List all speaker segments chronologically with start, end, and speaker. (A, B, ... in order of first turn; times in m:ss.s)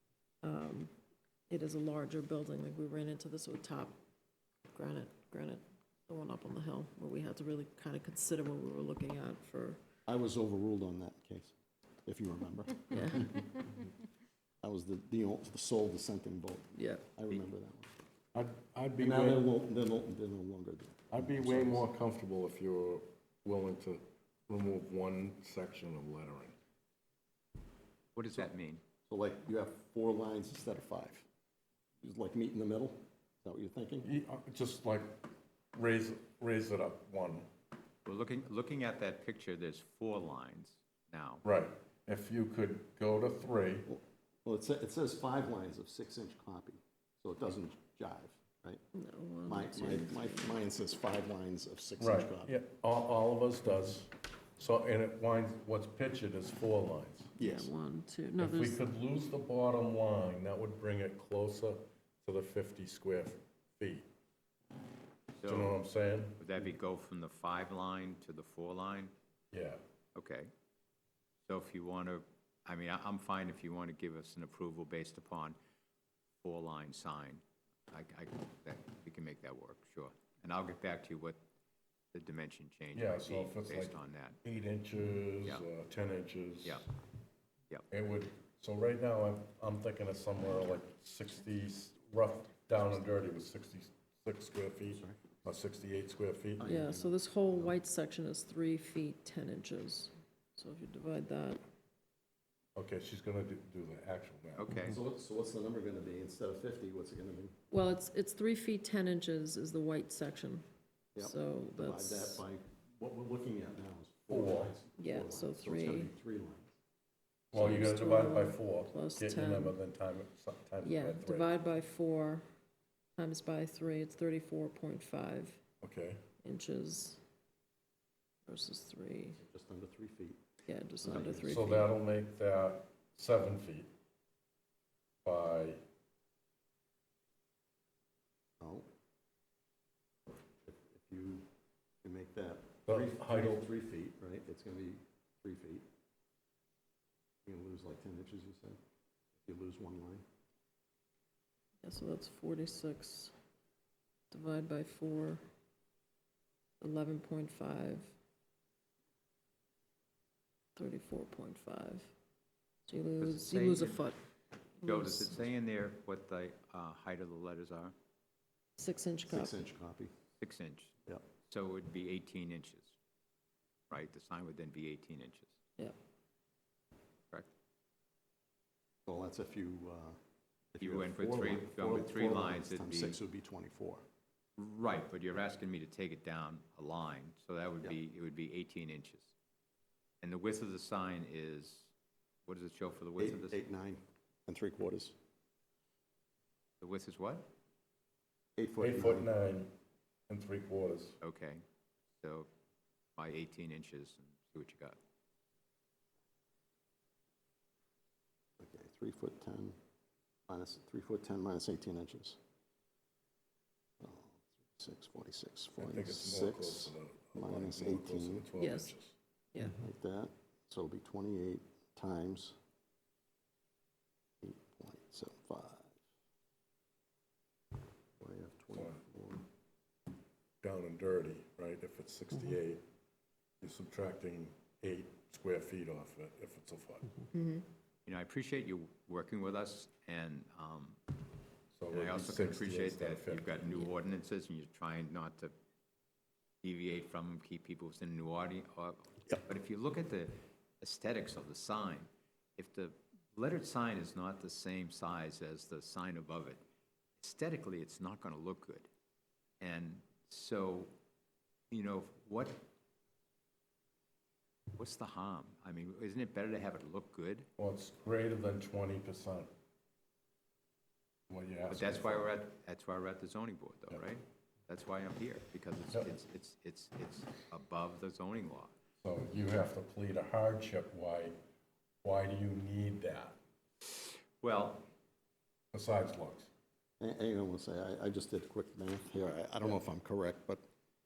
0:00.4-0:00.9 A
0:01.5-0:03.9 A
0:04.7-0:09.8 A
0:10.1-0:11.5 B
0:12.0-0:13.5 B
0:12.9-0:13.4 A
0:14.6-0:17.9 B
0:16.8-0:17.1 A
0:18.3-0:19.4 C
0:19.0-0:21.8 B
0:21.1-0:26.6 C
0:28.1-0:28.8 D
0:29.1-0:31.2 B
0:32.0-0:34.1 B
0:34.0-0:37.5 C
0:38.0-0:41.4 D
0:41.4-0:43.9 C
0:43.9-0:48.8 B
0:48.9-0:50.6 A
0:49.4-0:52.6 B
0:52.0-0:57.3 C
0:57.4-0:57.7 B
0:57.4-0:58.8 A
0:58.4-1:04.0 C
1:05.4-1:05.8 D
1:05.4-1:06.4 C
1:06.4-1:09.1 D
1:09.5-1:09.8 C
1:10.1-1:10.5 D
1:11.4-1:15.6 D
1:16.4-1:21.4 D
1:22.1-1:24.4 D
1:22.9-1:26.8 C
1:27.9-1:36.6 C
1:34.9-1:35.4 B
1:36.6-1:37.7 B
1:36.6-1:41.6 A
1:42.7-1:44.6 C
1:44.5-1:45.0 D
1:44.8-1:47.5 B
1:47.7-1:50.6 A
1:51.1-1:56.7 B
1:51.2-1:52.4 A
1:54.3-1:54.7 C
1:55.0-1:56.1 A
1:57.5-2:01.5 C
1:57.5-1:59.8 A
2:00.8-2:02.4 A
2:03.2-2:05.6 A
2:05.8-2:06.2 C
2:06.4-2:07.2 A
2:08.4-2:09.4 A
2:09.4-2:10.4 B
2:10.7-2:11.9 A
2:11.0-2:11.5 B
2:11.4-2:13.9 C
2:15.2-2:15.8 C
2:18.6-2:18.8 B
2:20.3-2:21.4 B
2:22.0-2:25.8 B
2:22.8-2:23.6 C
2:27.4-2:28.8 B
2:29.4-2:30.2 B
2:31.8-2:33.3 A
2:34.3-2:35.4 A
2:36.8-2:38.1 A
2:40.8-2:42.1 A
2:42.9-2:44.2 A
2:43.2-2:44.0 D
2:44.8-2:45.3 A
2:44.8-2:47.9 D
2:48.8-2:49.6 A
2:49.3-2:50.1 B
2:50.4-2:50.9 D
2:51.5-2:52.9 D
2:53.9-2:55.5 D
2:59.0-3:00.2 B
3:00.7-3:04.0 B
3:00.8-3:03.2 D
3:04.6-3:09.3 D
3:10.2-3:11.9 D
3:12.4-3:13.6 D
3:13.2-3:15.1 B
3:16.8-3:17.5 D
3:18.6-3:19.3 B
3:18.8-3:19.7 C
3:20.3-3:21.2 C
3:21.2-3:21.6 D
3:22.2-3:22.5 D
3:23.2-3:25.0 D
3:28.6-3:29.8 B
3:30.5-3:32.4 B
3:34.0-3:38.5 B
3:35.8-3:39.1 C
3:38.6-3:38.9 A
3:39.5-3:39.8 A
3:39.7-3:42.5 B
3:44.4-3:46.0 B
3:48.2-3:49.4 B
3:50.6-3:52.8 C
3:53.6-3:57.2 C
3:57.3-3:57.6 A
3:58.0-4:01.0 D
4:01.7-4:03.8 C
4:01.9-4:05.5 D
4:06.6-4:16.6 D
4:17.2-4:18.9 D
4:19.6-4:20.9 D
4:21.7-4:22.6 D
4:24.7-4:27.5 D
4:27.6-4:29.5 C
4:31.3-4:32.3 C
4:31.7-4:38.7 D
4:39.0-4:41.4 C
4:42.0-4:43.4 C
4:43.8-4:44.8 D
4:45.7-4:46.5 C
4:47.0-4:50.6 B